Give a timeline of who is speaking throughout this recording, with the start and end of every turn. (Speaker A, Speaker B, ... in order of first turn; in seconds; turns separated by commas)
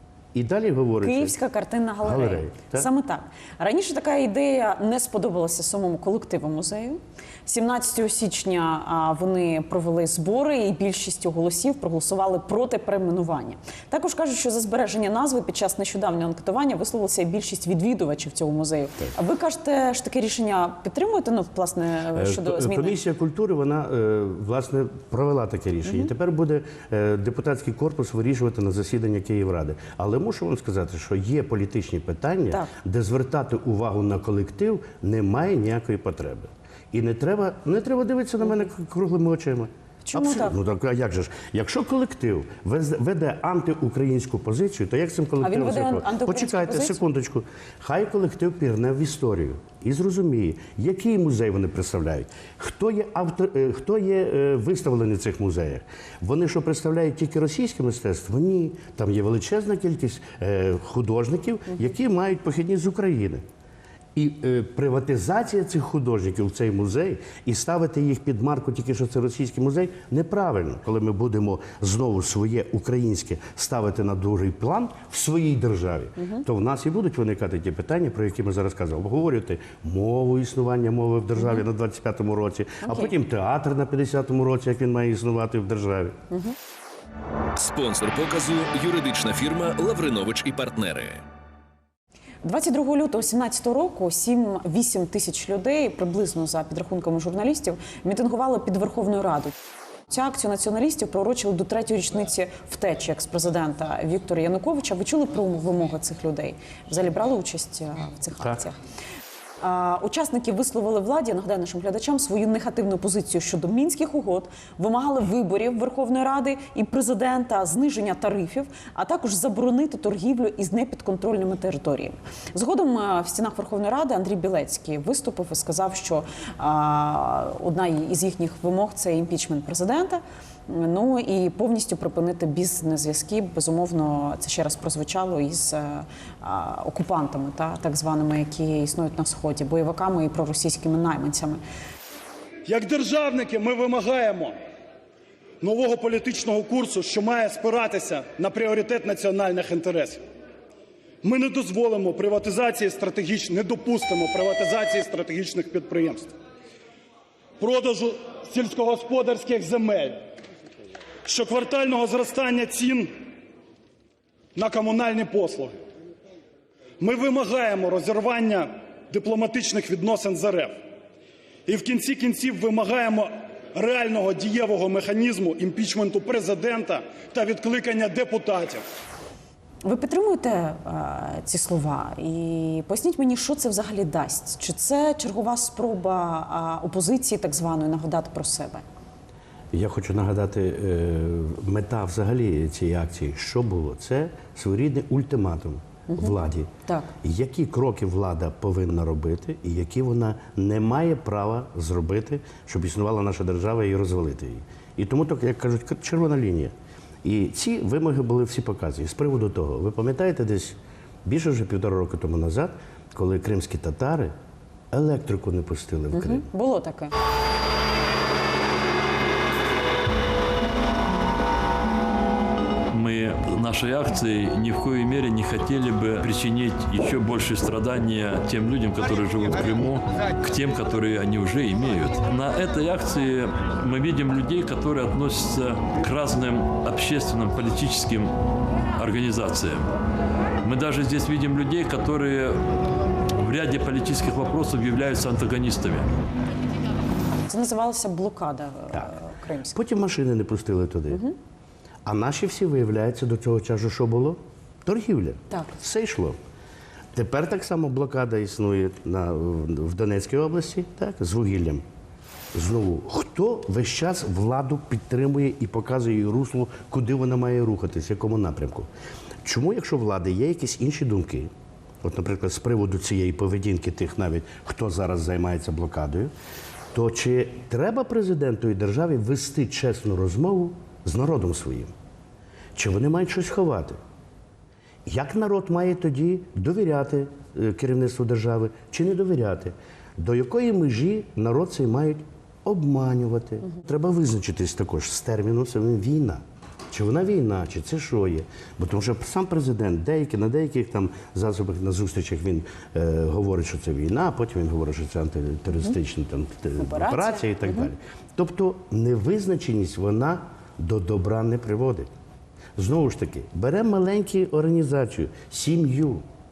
Speaker A: 0.3-1.4, Speaker B: 1.0-23.0, Speaker A: 2.0-2.9, Speaker A: 22.1-63.4, Speaker B: 40.0-40.5, Speaker B: 45.4-47.0, Speaker A: 64.2-86.2, Speaker B: 76.2-76.4, Speaker B: 82.8-83.1, Speaker C: 87.6-91.2, Speaker B: 92.4-99.5, Speaker B: 100.1-108.8, Speaker B: 109.6-141.6, Speaker D: 142.7-144.6, Speaker D: 145.6-150.2, Speaker D: 151.2-156.3, Speaker D: 157.6-160.2, Speaker D: 161.2-163.2, Speaker D: 164.6-165.8, Speaker D: 167.0-170.8, Speaker D: 171.7-178.8, Speaker B: 179.8-188.8, Speaker A: 189.7-196.7, Speaker B: 196.1-196.3, Speaker A: 197.2-214.3, Speaker A: 214.9-216.5, Speaker B: 216.1-217.1, Speaker E: 222.9-238.3, Speaker E: 239.0-239.9, Speaker E: 240.6-242.6, Speaker E: 243.3-246.1, Speaker B: 247.5-249.8, Speaker A: 249.7-251.2, Speaker A: 252.1-256.4, Speaker A: 257.1-261.9, Speaker A: 262.5-268.9, Speaker A: 269.4-271.5, Speaker A: 272.0-276.3, Speaker A: 276.9-281.9, Speaker A: 282.8-284.0, Speaker A: 285.1-312.1, Speaker B: 306.8-307.9, Speaker A: 312.8-316.2